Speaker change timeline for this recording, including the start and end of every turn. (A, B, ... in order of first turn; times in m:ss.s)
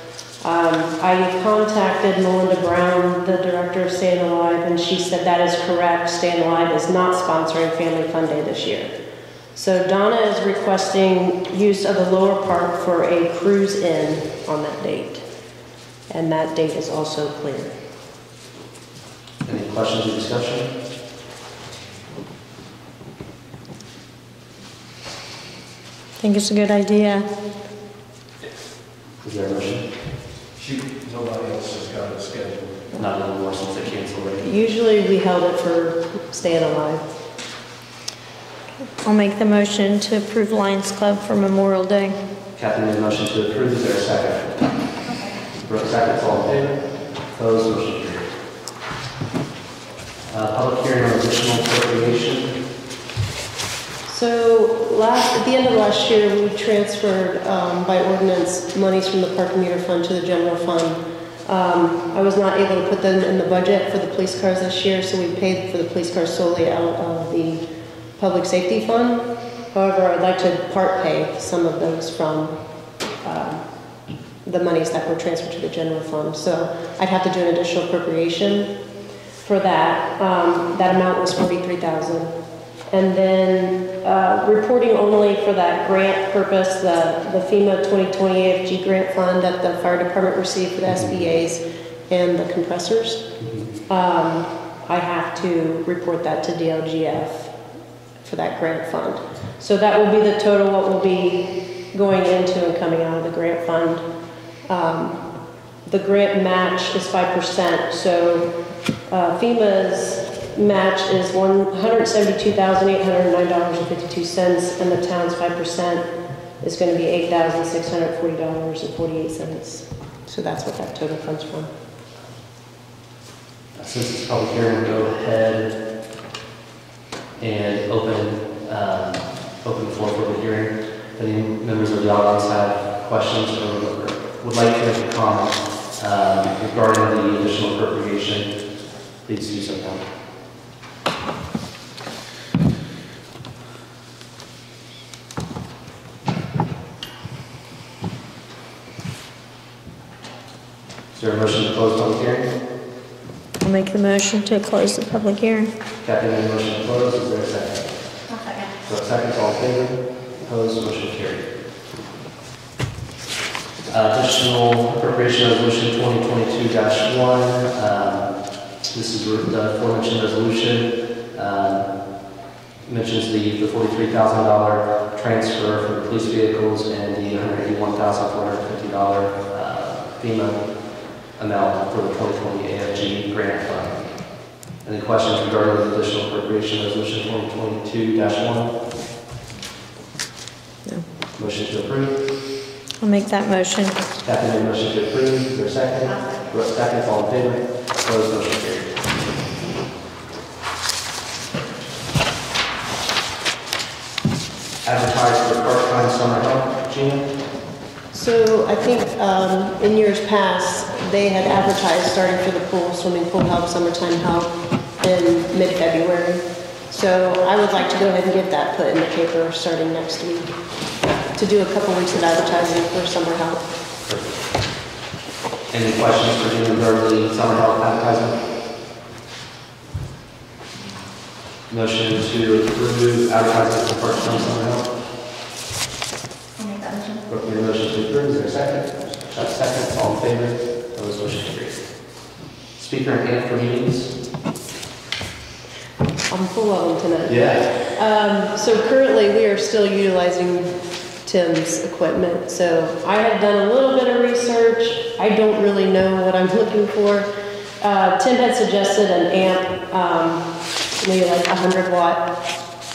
0:00.4-0:08.9 A
0:09.5-0:15.3 A
0:16.1-0:17.7 A
0:19.4-0:20.8 B
0:21.8-0:22.0 C
0:26.2-0:27.3 D
0:29.2-0:29.9 B
0:30.5-0:32.8 C
0:33.0-0:34.5 B
0:34.4-0:37.1 A
0:39.0-0:42.2 D
0:42.6-0:44.8 B
0:45.0-0:45.5 E
0:45.6-0:48.3 B
0:50.3-0:52.6 B
0:54.1-1:18.8 A
1:19.4-1:33.4 A
1:30.9-1:31.3 B
1:33.4-1:33.7 B
1:33.9-1:37.6 A
1:38.2-1:44.1 A
1:44.6-2:01.7 A
2:03.7-2:05.8 B
2:07.4-2:20.1 B
2:31.1-2:32.5 B
2:33.6-2:35.7 D
2:36.0-2:38.2 B
2:38.2-2:38.8 E
2:38.8-2:41.5 B
2:43.9-2:52.3 B
2:52.8-3:08.8 B
3:11.4-3:12.2 B
3:13.0-3:14.0 D
3:14.2-3:18.9 B
3:16.0-3:16.5 E
3:24.8-3:27.4 B
3:28.1-3:40.6 A
3:41.3-3:43.7 A
3:44.0-3:44.3 B
3:45.7-3:48.4 B
3:51.7-3:54.9 B
3:56.6-3:57.3 E
3:57.3-4:04.1 B
4:06.3-4:22.4 A
4:07.3-4:07.8 B